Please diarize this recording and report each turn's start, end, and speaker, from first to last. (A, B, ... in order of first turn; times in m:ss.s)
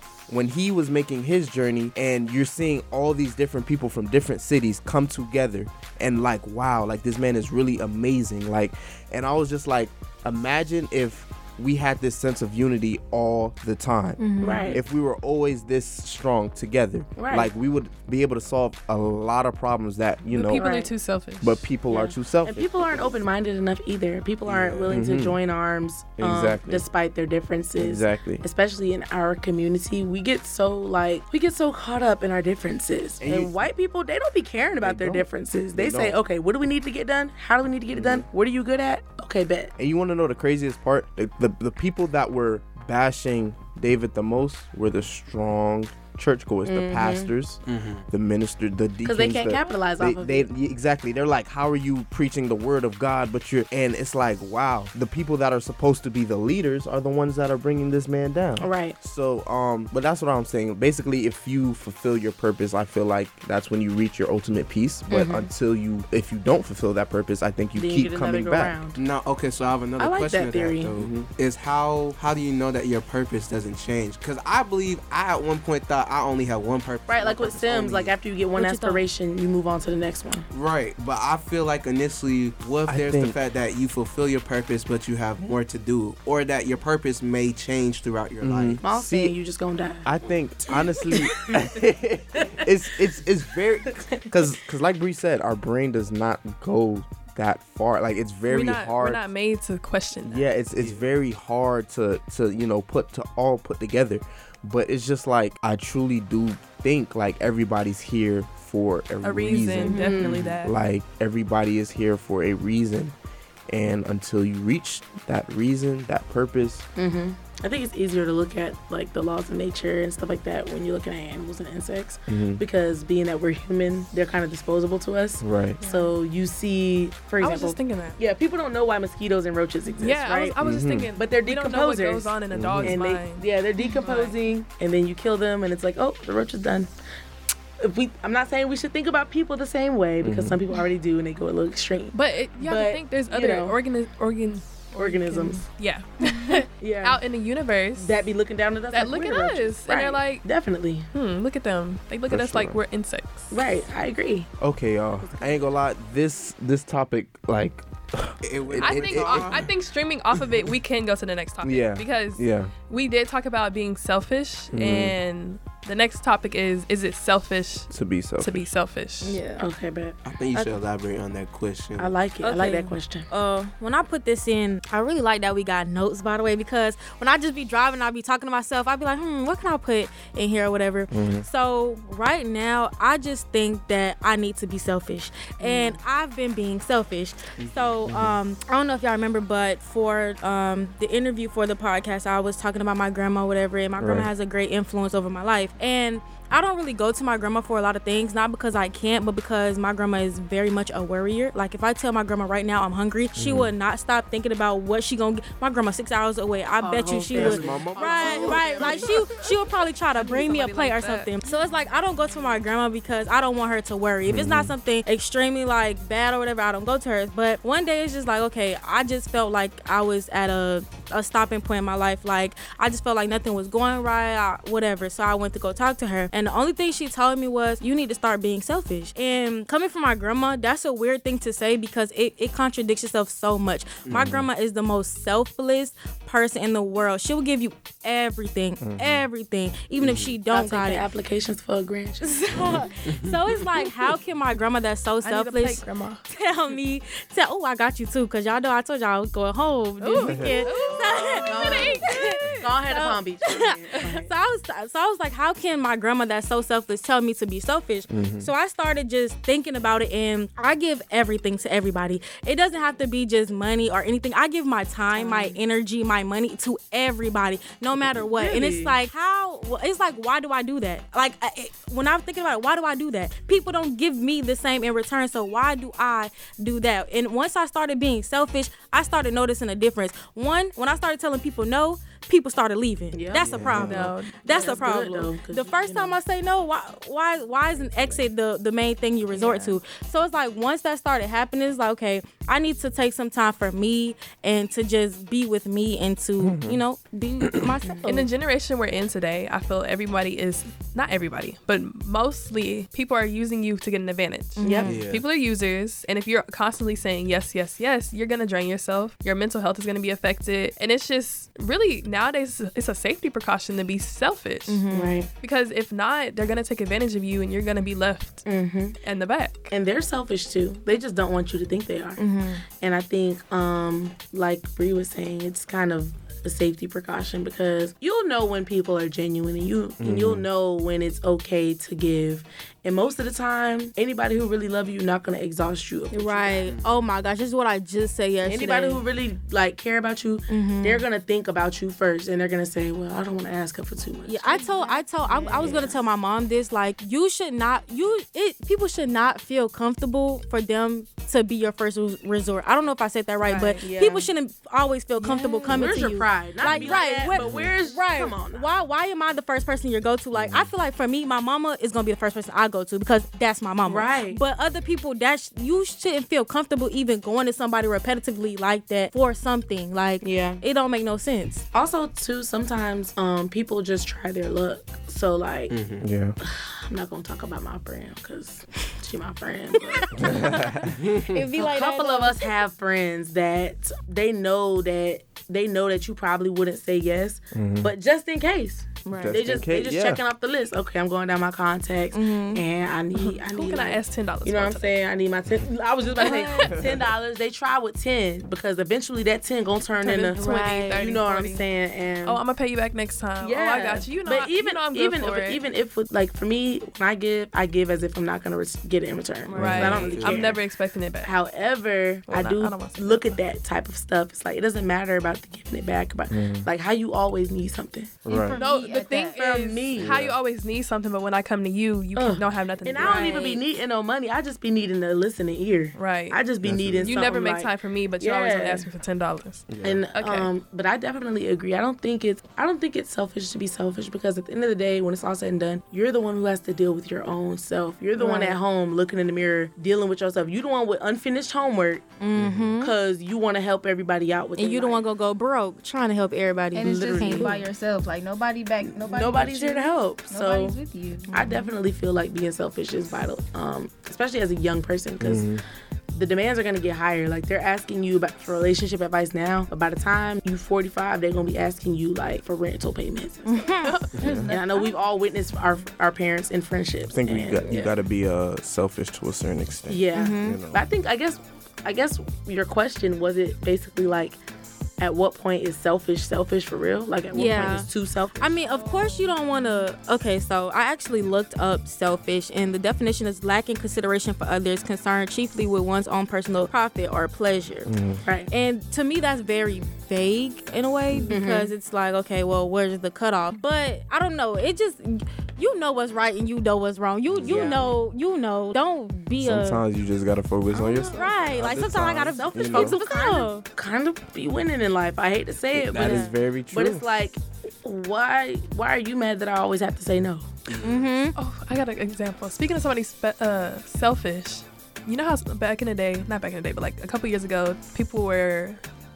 0:00.3-0:20.6 A
0:14.2-0:14.8 B
0:14.4-0:14.8 C
0:17.2-0:17.5 C
0:20.3-0:21.7 D
0:20.5-0:20.9 C
0:21.4-0:23.1 A
0:21.9-0:39.7 C
0:24.5-0:25.0 E
0:24.9-0:25.4 A
0:26.2-0:26.8 A
0:27.8-0:28.4 A
0:33.2-0:33.5 A
0:34.8-0:36.2 A
0:38.0-0:38.2 A
0:39.8-1:08.8 A
0:46.6-0:47.3 C
0:47.7-0:48.0 E
0:49.0-0:50.5 C
0:58.6-0:59.0 C
1:05.1-1:05.5 C
1:07.8-1:09.0 C
1:09.0-1:18.1 E
1:10.0-1:10.9 C
1:11.0-1:11.3 A
1:17.1-1:20.5 C
1:18.6-1:19.0 B
1:20.5-1:28.8 E
1:22.9-1:23.4 A
1:28.4-1:29.3 A
1:28.8-1:30.1 C
1:30.0-1:39.2 A
1:30.7-1:31.8 C
1:32.3-1:32.8 C
1:33.9-1:34.4 C
1:38.5-1:40.5 D
1:40.3-1:53.1 A
1:40.8-1:41.1 E
1:49.2-1:50.7 D
1:49.9-1:50.4 C
1:53.7-1:56.9 A
1:57.0-2:10.6 C
2:02.3-2:02.6 A
2:05.4-2:05.8 A
2:05.8-2:06.1 D
2:07.4-2:08.2 D
2:10.0-2:14.4 D
2:10.6-2:11.1 A
2:11.2-2:16.9 C
2:12.5-2:13.0 A
2:17.8-2:23.8 C
2:20.2-2:20.6 A
2:22.1-2:28.1 D
2:24.9-2:25.6 C
2:26.7-2:27.2 C
2:28.0-2:31.1 C
2:28.9-2:30.5 D
2:31.1-2:33.6 D
2:32.3-2:32.8 A
2:33.5-2:34.5 C
2:34.6-2:39.6 A
2:35.2-2:35.7 C
2:38.4-2:39.7 E
2:38.8-2:49.4 D
2:41.6-2:42.7 A
2:44.7-2:45.2 A
2:47.9-2:48.6 A
2:49.2-2:49.6 F
2:49.6-2:50.8 C
2:50.3-2:52.2 E
2:52.0-2:53.3 C
2:52.4-4:01.0 B
3:01.1-3:01.5 A
3:05.6-3:06.0 C
3:07.6-3:08.1 E
3:08.0-3:08.4 A
3:14.0-3:14.3 A
3:23.4-3:23.7 A
3:26.8-3:29.3 C
3:27.3-3:29.0 A
3:30.2-3:31.3 D
3:34.3-3:34.7 A
3:54.1-3:54.3 E
3:54.1-3:54.5 A
3:58.8-3:59.3 A
4:00.0-4:00.3 E
4:00.5-4:02.9 C
4:02.2-4:58.2 B
4:03.1-4:03.7 E
4:05.2-4:06.2 D
4:10.0-4:12.7 D
4:10.3-4:10.6 A
4:10.5-4:14.3 C
4:18.1-4:18.5 A
4:25.1-4:25.6 C
4:28.3-4:29.0 C
4:43.1-4:43.6 C
4:43.5-4:44.1 A
4:43.5-4:43.9 E
4:43.8-4:44.9 D
4:44.5-4:46.2 C
4:49.4-4:49.8 D
4:56.4-4:56.8 A
4:57.4-4:57.7 A
4:57.9-4:58.2 C
4:58.1-5:14.8 D
5:04.6-5:05.0 B
5:04.6-5:05.0 C
5:04.9-5:05.2 E
5:14.7-5:15.2 B
5:14.9-5:15.3 C
5:15.4-5:18.5 D
5:18.4-5:19.0 C
5:19.0-5:19.7 D
5:19.7-5:22.2 C
5:22.2-5:22.6 B
5:22.7-5:36.7 C
5:30.0-5:30.5 A
5:36.1-5:39.0 B
5:36.7-5:37.0 E
5:38.4-5:46.0 C
5:40.5-5:41.0 B
5:44.3-6:11.7 B
5:44.5-5:45.8 F
5:53.5-5:54.3 C
5:55.2-5:58.7 C
5:56.6-5:56.9 A
5:57.4-5:57.7 E
6:00.3-6:00.7 A
6:03.8-6:04.4 C
6:10.2-6:10.6 C
6:11.7-6:15.8 C
6:15.7-6:16.1 E
6:16.0-6:16.4 A
6:16.4-6:20.9 C
6:19.9-6:22.5 B
6:20.2-6:21.0 A
6:20.9-6:21.5 E
6:21.6-6:42.4 C
6:27.5-6:27.9 A
6:29.1-6:29.7 B
6:29.2-6:30.2 A
6:32.1-6:32.6 B
6:33.1-6:34.9 D
6:36.2-6:36.8 B
6:36.2-6:36.8 D
6:40.0-6:41.6 D
6:40.4-6:41.0 B
6:42.2-6:45.6 D
6:43.4-6:50.6 C
6:49.5-6:51.4 D
6:49.5-6:50.2 A
6:49.6-6:50.6 E
6:51.2-6:58.2 C
6:52.3-6:53.4 D
6:56.3-6:56.7 A
6:58.3-6:58.6 A
6:58.3-6:59.4 F
6:58.6-7:03.6 D
6:59.4-7:00.2 C
7:00.0-7:00.4 A
7:02.2-7:08.9 C
7:03.0-7:03.5 B
7:06.0-7:06.4 D
7:06.6-7:07.3 A
7:07.0-7:10.5 D
7:09.7-7:10.0 A
7:09.8-7:22.1 C
7:18.2-7:18.6 B
7:22.2-7:22.9 B
7:22.4-7:22.7 A
7:22.8-7:25.0 C
7:24.6-7:27.6 B
7:26.7-7:31.3 F
7:26.8-7:27.6 C
7:28.8-7:30.8 C
7:31.3-7:31.7 B
7:31.3-7:35.5 C
7:35.2-7:35.6 A
7:36.1-7:43.7 C
7:43.5-7:44.2 B
7:43.8-7:44.2 D
7:44.2-7:45.0 F
7:44.2-7:44.5 A
7:44.5-7:47.9 C
7:47.1-7:50.8 A
7:49.9-7:54.4 C
7:50.1-7:50.6 B
7:55.0-7:58.6 C
7:57.3-8:07.9 B
7:58.7-7:59.6 F
8:07.9-8:08.2 A
8:08.2-8:08.5 C
8:08.5-8:19.8 B
8:11.1-8:11.4 A
8:11.3-8:11.7 C
8:17.3-8:17.9 A
8:17.4-8:17.9 C
8:19.4-8:23.0 A
8:20.7-8:23.6 B
8:20.7-8:21.5 C
8:22.3-8:30.5 C
8:25.7-8:27.0 A
8:25.9-8:26.3 B
8:30.7-8:31.1 E
8:30.8-8:31.4 B
8:31.4-8:38.8 D